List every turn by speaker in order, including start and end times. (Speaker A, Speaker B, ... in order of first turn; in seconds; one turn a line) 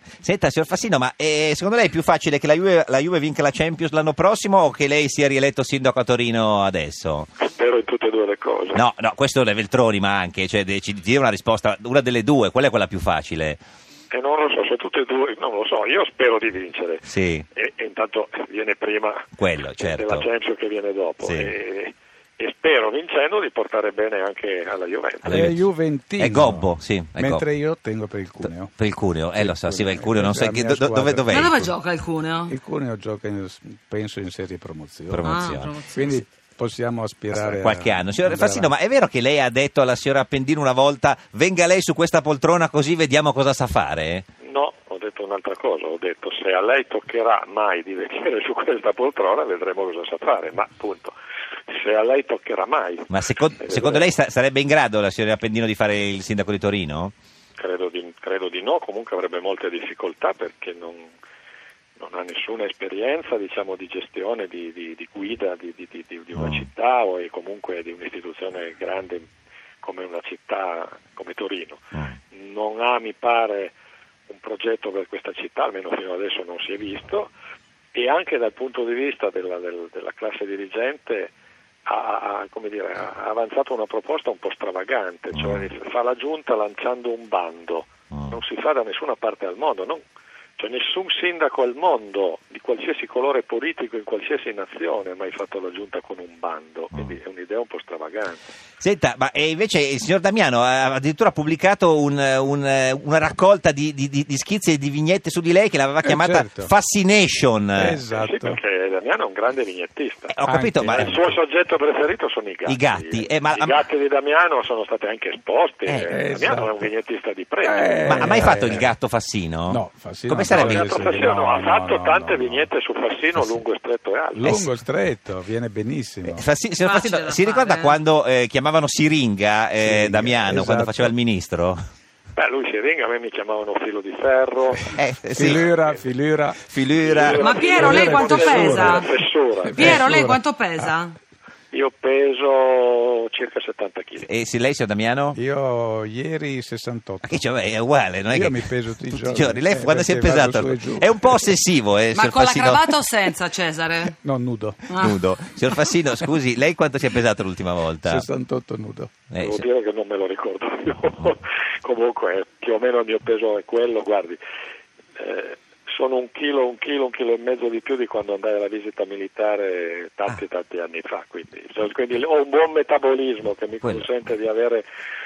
Speaker A: 0.2-7.3
Speaker B: 7.4-8.8
Speaker A: 8.7-13.6
Speaker B: 14.1-25.3
Speaker A: 17.0-17.4
Speaker A: 19.4-20.3
Speaker A: 21.2-21.5
Speaker A: 25.2-25.6
Speaker C: 25.2-28.7
Speaker A: 26.2-27.4
Speaker A: 28.8-31.5
Speaker C: 29.3-31.8
Speaker D: 31.3-32.5
Speaker C: 32.5-35.3
Speaker A: 35.1-35.7
Speaker D: 35.2-36.0
Speaker C: 35.9-38.7
Speaker A: 37.3-44.2
Speaker B: 44.4-51.1
Speaker B: 51.7-54.1
Speaker A: 53.1-57.1
Speaker B: 57.6-61.1
Speaker B: 62.0-69.3
Speaker A: 66.3-66.7
Speaker B: 69.8-73.7
Speaker B: 74.3-77.3
Speaker B: 77.9-81.3
Speaker B: 81.8-90.0
Speaker A: 85.3-85.7
Speaker A: 88.1-88.4
Speaker B: 90.6-98.4
Speaker A: 98.8-108.0
Speaker C: 106.0-106.7
Speaker C: 107.7-108.6
Speaker B: 108.2-110.3
Speaker A: 110.3-111.3
Speaker C: 110.5-111.2
Speaker B: 110.8-118.5
Speaker A: 112.7-113.8
Speaker C: 116.1-116.8
Speaker C: 117.6-118.9
Speaker A: 118.0-121.2
Speaker C: 119.7-122.7
Speaker B: 120.5-124.7
Speaker C: 124.3-126.5
Speaker A: 126.2-131.8
Speaker D: 126.8-128.0
Speaker C: 129.8-131.1
Speaker B: 132.3-134.8
Speaker A: 134.9-135.7
Speaker C: 135.3-136.6
Speaker A: 136.7-137.5
Speaker B: 137.0-140.0
Speaker D: 137.3-139.1
Speaker C: 137.7-140.9
Speaker D: 139.8-141.1
Speaker B: 141.7-144.3
Speaker A: 144.2-145.4
Speaker C: 145.3-147.5
Speaker A: 147.2-152.9
Speaker C: 148.3-151.5
Speaker D: 152.1-154.1
Speaker C: 154.2-154.8
Speaker D: 154.9-155.2
Speaker A: 154.9-158.2
Speaker C: 158.0-159.1
Speaker A: 159.3-159.7
Speaker B: 159.4-164.4
Speaker B: 165.2-174.8
Speaker A: 173.8-174.1